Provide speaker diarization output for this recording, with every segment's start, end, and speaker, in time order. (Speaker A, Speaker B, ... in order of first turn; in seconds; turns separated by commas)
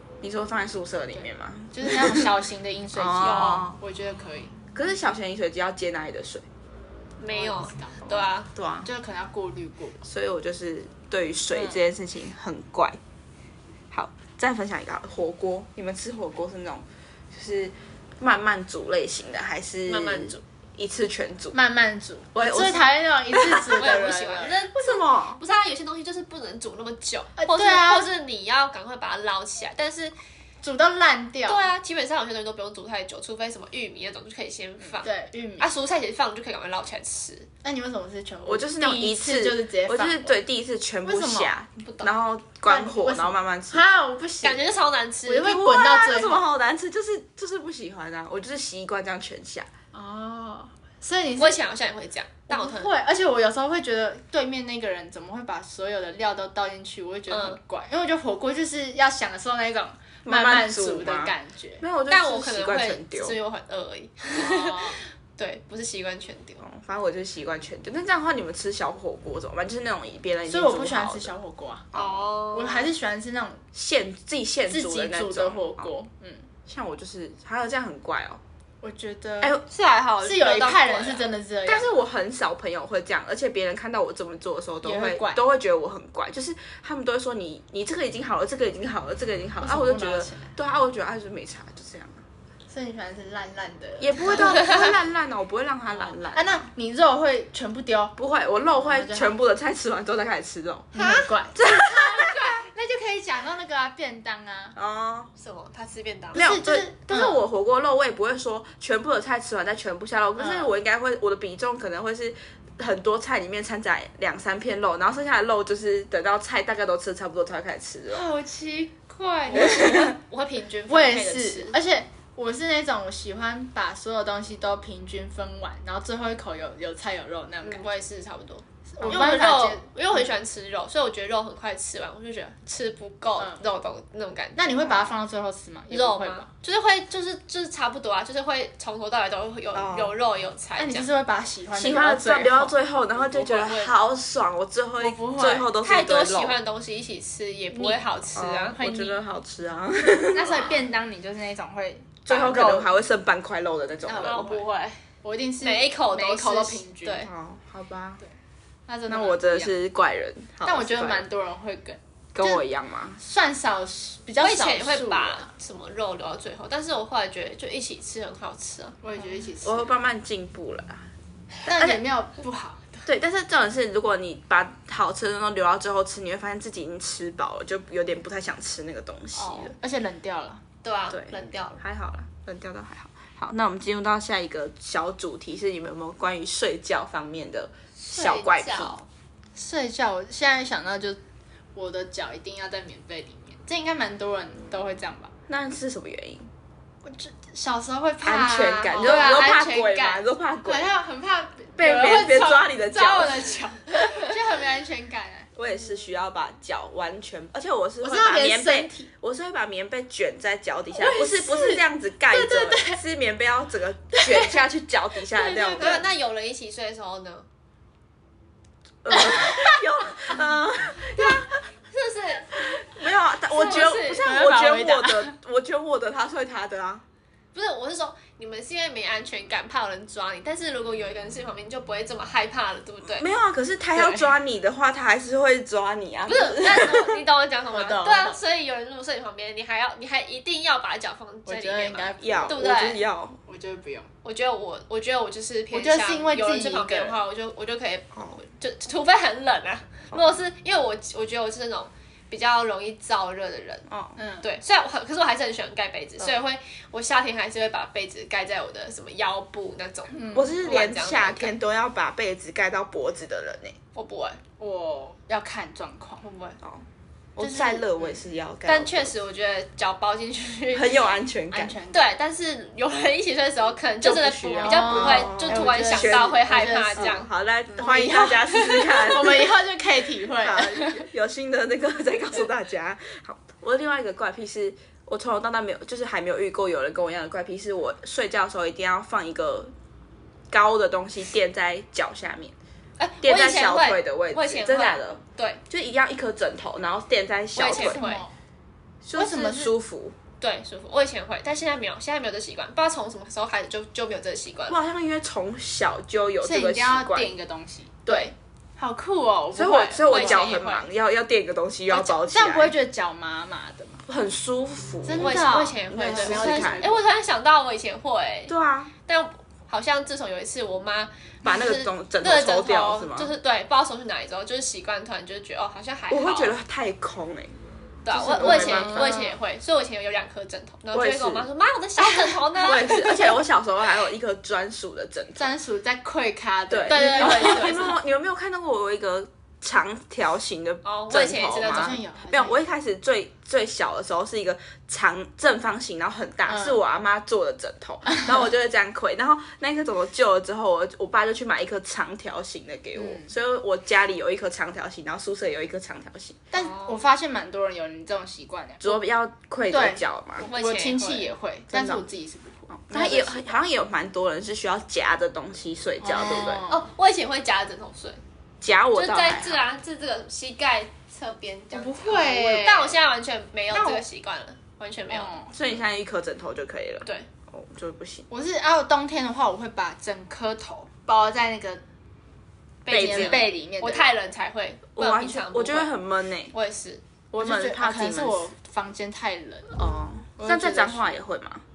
Speaker A: 0.2-2.3, Speaker B: 1.1-4.5, Speaker A: 2.9-3.8, Speaker C: 3.2-3.7, Speaker A: 4.7-6.5, Speaker C: 7.2-8.5, Speaker B: 7.3-8.3, Speaker A: 8.5-8.9, Speaker B: 8.8-10.0, Speaker A: 10.0-13.0, Speaker B: 11.5-11.8, Speaker A: 13.9-21.6, Speaker C: 19.9-20.4, Speaker B: 21.5-24.6, Speaker A: 22.4-23.9, Speaker C: 23.8-30.1, Speaker A: 24.7-25.4, Speaker B: 27.4-28.1, Speaker B: 30.6-31.7, Speaker C: 31.5-37.5, Speaker B: 35.0-35.7, Speaker B: 37.6-40.4, Speaker A: 38.4-43.8, Speaker B: 41.0-41.5, Speaker C: 41.8-42.1, Speaker B: 42.6-44.7, Speaker C: 44.4-45.5, Speaker B: 45.2-46.4, Speaker A: 45.4-49.7, Speaker B: 49.9-51.6, Speaker C: 51.4-52.9, Speaker B: 52.5-61.8, Speaker C: 57.3-57.6, Speaker A: 60.2-63.4, Speaker C: 62.1-66.6, Speaker B: 64.3-65.0, Speaker A: 66.6-71.3, Speaker B: 70.5-71.9, Speaker A: 71.9-72.3, Speaker C: 71.9-72.9, Speaker B: 72.5-73.6, Speaker A: 73.7-75.9, Speaker B: 74.7-76.5, Speaker A: 76.7-78.4, Speaker B: 78.8-79.6, Speaker C: 79.7-81.3, Speaker B: 80.2-82.0, Speaker A: 81.7-92.2, Speaker B: 84.8-85.4, Speaker B: 89.6-90.5, Speaker B: 92.7-94.8, Speaker A: 94.0-96.6, Speaker C: 94.4-94.9, Speaker B: 96.3-98.2, Speaker A: 98.2-100.9, Speaker B: 98.8-99.4, Speaker B: 100.9-104.8, Speaker C: 100.9-101.3, Speaker A: 101.5-102.5, Speaker A: 104.8-105.3, Speaker C: 105.4-106.4, Speaker B: 106.3-107.4, Speaker A: 106.3-118.3, Speaker B: 110.4-110.7, Speaker B: 118.1-120.2, Speaker C: 119.5-121.8, Speaker A: 119.5-120.2, Speaker B: 120.9-127.9, Speaker C: 127.6-135.2, Speaker B: 128.9-130.2, Speaker B: 133.4-133.6, Speaker B: 134.6-136.5, Speaker C: 135.9-141.1, Speaker A: 139.7-140.1, Speaker B: 140.8-142.8, Speaker A: 141.7-146.6, Speaker C: 143.2-143.9, Speaker B: 145.0-145.7, Speaker C: 145.8-148.9, Speaker B: 147.7-148.0, Speaker A: 148.3-150.7, Speaker B: 148.8-149.2, Speaker B: 150.3-152.9, Speaker C: 150.5-150.8, Speaker A: 152.2-154.5, Speaker B: 154.0-157.3, Speaker C: 154.2-154.9, Speaker C: 155.6-157.3, Speaker A: 157.2-158.2, Speaker B: 158.9-159.8, Speaker A: 159.1-161.3, Speaker B: 160.6-162.6, Speaker A: 162.3-163.2, Speaker B: 163.2-165.5, Speaker C: 164.4-169.0, Speaker B: 169.0-169.9, Speaker A: 169.6-171.1, Speaker A: 171.7-172.0, Speaker B: 171.7-173.1, Speaker A: 173.1-179.8, Speaker C: 179.3-179.7, Speaker B: 179.7-180.6, Speaker C: 180.8-181.8, Speaker A: 181.1-189.0, Speaker C: 188.0-189.1, Speaker B: 189.5-191.2, Speaker B: 191.8-195.3, Speaker A: 195.5-196.5, Speaker B: 197.0-205.5, Speaker A: 198.2-200.9, Speaker C: 198.5-200.2, Speaker A: 201.8-203.6, Speaker A: 205.6-216.1, Speaker B: 208.0-209.1, Speaker B: 210.9-213.0, Speaker B: 214.1-214.6, Speaker B: 215.3-216.0, Speaker C: 215.7-217.5, Speaker A: 219.0-221.6, Speaker B: 219.1-219.7, Speaker C: 221.2-222.7, Speaker A: 222.5-227.0, Speaker C: 223.5-224.2, Speaker B: 223.7-225.3, Speaker C: 227.5-233.3, Speaker A: 233.1-237.2, Speaker B: 233.9-234.3, Speaker C: 236.3-243.0, Speaker B: 237.7-238.4, Speaker B: 241.5-242.6, Speaker A: 242.2-243.4, Speaker B: 243.5-244.1, Speaker C: 244.2-253.9, Speaker B: 245.7-247.2, Speaker A: 253.9-254.2, Speaker B: 254.2-254.5, Speaker C: 254.4-261.5, Speaker B: 260.1-260.6, Speaker A: 260.3-263.8, Speaker C: 263.9-264.4, Speaker B: 264.6-266.2, Speaker C: 266.2-266.6, Speaker A: 266.6-269.1, Speaker B: 267.4-268.0, Speaker C: 268.7-271.2, Speaker A: 270.7-271.8, Speaker B: 271.5-272.1, Speaker C: 271.9-277.9, Speaker A: 274.0-279.5, Speaker B: 274.6-277.2, Speaker B: 277.8-281.1, Speaker C: 278.5-279.0, Speaker A: 280.3-289.7, Speaker A: 290.5-292.5, Speaker C: 293.0-295.6, Speaker A: 293.2-298.0, Speaker C: 297.6-298.2, Speaker B: 297.7-298.3, Speaker A: 299.0-300.2, Speaker B: 299.2-299.7, Speaker C: 300.4-304.8, Speaker A: 304.7-307.3, Speaker B: 306.4-310.7, Speaker A: 308.1-308.3, Speaker A: 309.5-312.8, Speaker C: 310.1-310.9, Speaker B: 311.9-314.0, Speaker A: 314.1-316.9, Speaker B: 315.0-317.0, Speaker C: 315.2-318.5, Speaker A: 318.5-318.9, Speaker C: 319.1-326.6, Speaker A: 321.4-323.3, Speaker A: 326.1-327.5, Speaker C: 328.0-333.3, Speaker A: 328.1-329.1, Speaker B: 328.3-329.4, Speaker A: 330.9-331.5, Speaker A: 332.6-335.5, Speaker B: 335.4-337.9, Speaker A: 336.7-356.4, Speaker C: 336.9-337.9, Speaker C: 340.8-342.0, Speaker B: 341.6-342.6, Speaker B: 346.5-346.8, Speaker B: 348.1-348.4, Speaker B: 352.9-353.3, Speaker B: 356.5-359.0, Speaker C: 356.5-357.0, Speaker A: 358.8-360.5, Speaker B: 359.7-363.5, Speaker C: 360.4-361.3, Speaker A: 361.7-362.0, Speaker A: 362.7-366.6, Speaker B: 366.0-366.9, Speaker C: 366.7-368.2, Speaker A: 368.6-369.6, Speaker C: 368.9-375.4, Speaker B: 371.7-373.0, Speaker B: 373.7-374.0, Speaker B: 375.1-375.5, Speaker A: 375.5-378.3, Speaker B: 378.3-381.8, Speaker C: 382.8-385.9, Speaker A: 382.9-383.5, Speaker B: 382.9-384.1, Speaker A: 385.0-386.5, Speaker C: 386.5-387.0, Speaker A: 387.3-388.5, Speaker B: 387.4-389.8, Speaker A: 389.8-391.6, Speaker B: 390.4-391.2